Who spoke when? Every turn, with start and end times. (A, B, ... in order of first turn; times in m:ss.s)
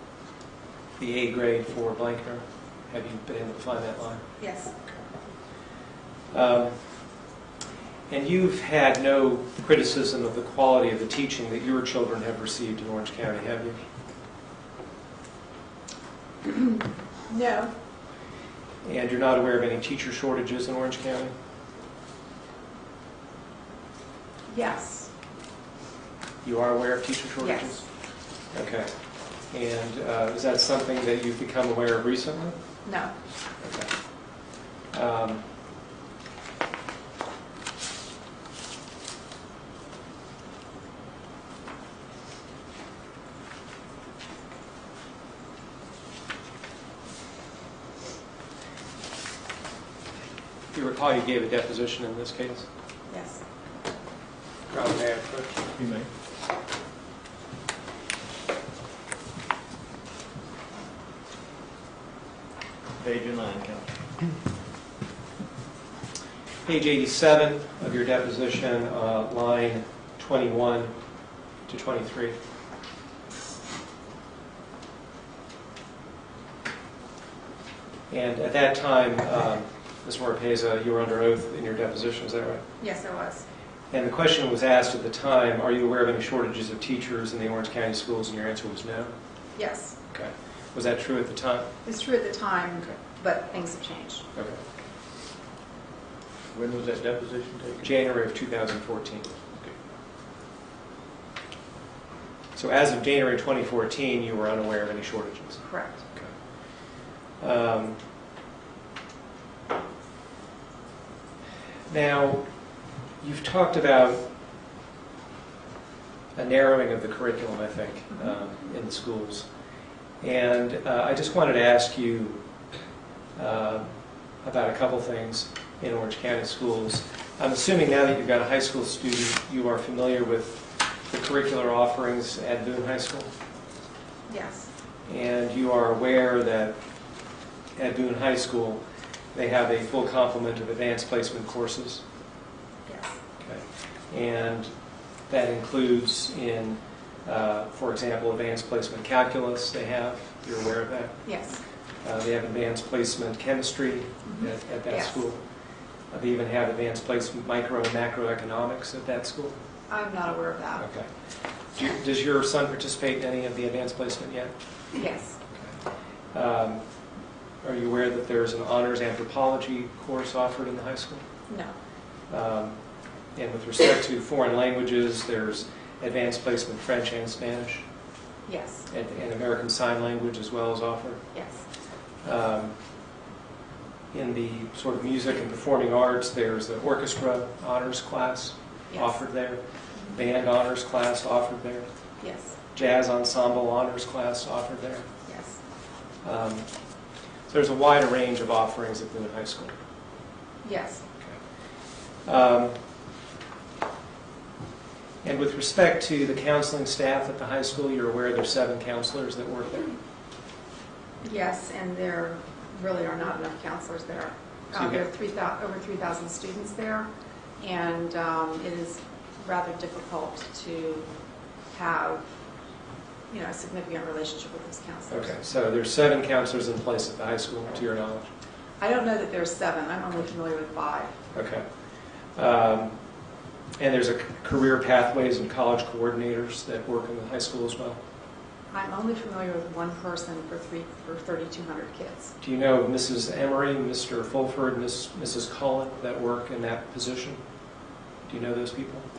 0:01.0-0:04.2 A
0:04.4-0:04.7 B
0:06.3-0:06.7 A
0:08.1-0:13.8 A
0:16.4-0:17.7 B
0:18.8-0:21.3 A
0:24.5-0:25.1 B
0:26.4-0:27.8 A
0:27.4-0:27.8 B
0:28.5-0:28.9 A
0:29.5-0:32.6 A
0:32.8-0:33.1 B
0:33.6-0:33.9 A
0:34.9-0:35.4 A
0:50.7-0:52.7 A
0:53.1-0:53.4 B
0:54.7-0:55.6 A
0:55.7-0:56.1 C
1:03.0-1:03.9 C
1:06.6-1:10.9 A
1:11.7-1:12.4 A
1:18.1-1:22.6 A
1:22.8-1:23.4 B
1:23.9-1:29.1 A
1:29.6-1:30.0 B
1:30.1-1:31.7 A
1:31.8-1:34.2 B
1:34.4-1:34.6 A
1:36.5-1:37.9 C
1:37.8-1:39.3 A
1:42.6-1:46.3 A
1:45.6-1:46.0 B
1:47.4-1:48.0 A
1:51.9-1:52.4 A
1:53.2-1:54.2 A
1:56.4-1:59.5 A
2:00.2-2:02.4 A
2:03.4-2:03.9 A
2:04.4-2:13.3 A
2:14.3-2:14.7 B
2:15.1-2:16.7 A
2:17.8-2:18.8 A
2:19.3-2:22.0 A
2:22.9-2:23.2 B
2:23.4-2:24.7 A
2:25.3-2:31.2 A
2:31.2-2:31.6 B
2:32.0-2:35.4 A
2:34.3-2:35.2 B
2:36.1-2:39.6 A
2:39.9-2:40.8 B
2:40.8-2:41.1 A
2:41.7-2:44.5 A
2:44.9-2:45.4 B
2:46.3-2:46.8 A
2:47.6-2:51.2 A
2:51.5-2:51.7 B
2:52.3-2:52.8 A
2:53.4-2:57.8 A
2:58.5-2:58.8 B
2:58.9-3:01.2 A
3:01.3-3:01.6 B
3:02.2-3:02.7 A
3:04.1-3:09.6 A
3:08.9-3:09.2 B
3:10.1-3:11.8 A
3:12.2-3:12.6 B
3:12.7-3:15.0 A
3:15.3-3:15.6 B
3:16.2-3:16.6 A
3:17.5-3:19.7 A
3:20.6-3:21.0 B
3:22.2-3:22.8 A
3:25.2-3:29.9 A
3:31.2-3:37.1 B
3:34.7-3:35.0 A
3:37.6-3:41.1 B
3:41.7-3:42.2 B
3:43.3-3:45.4 B
3:45.1-3:48.3 A
3:48.8-3:51.1 B
3:51.3-3:51.6 A
3:52.4-3:52.9 A
3:53.8-3:58.0 A
3:58.7-4:02.3 B
4:02.4-4:07.4 A
4:08.2-4:09.0 A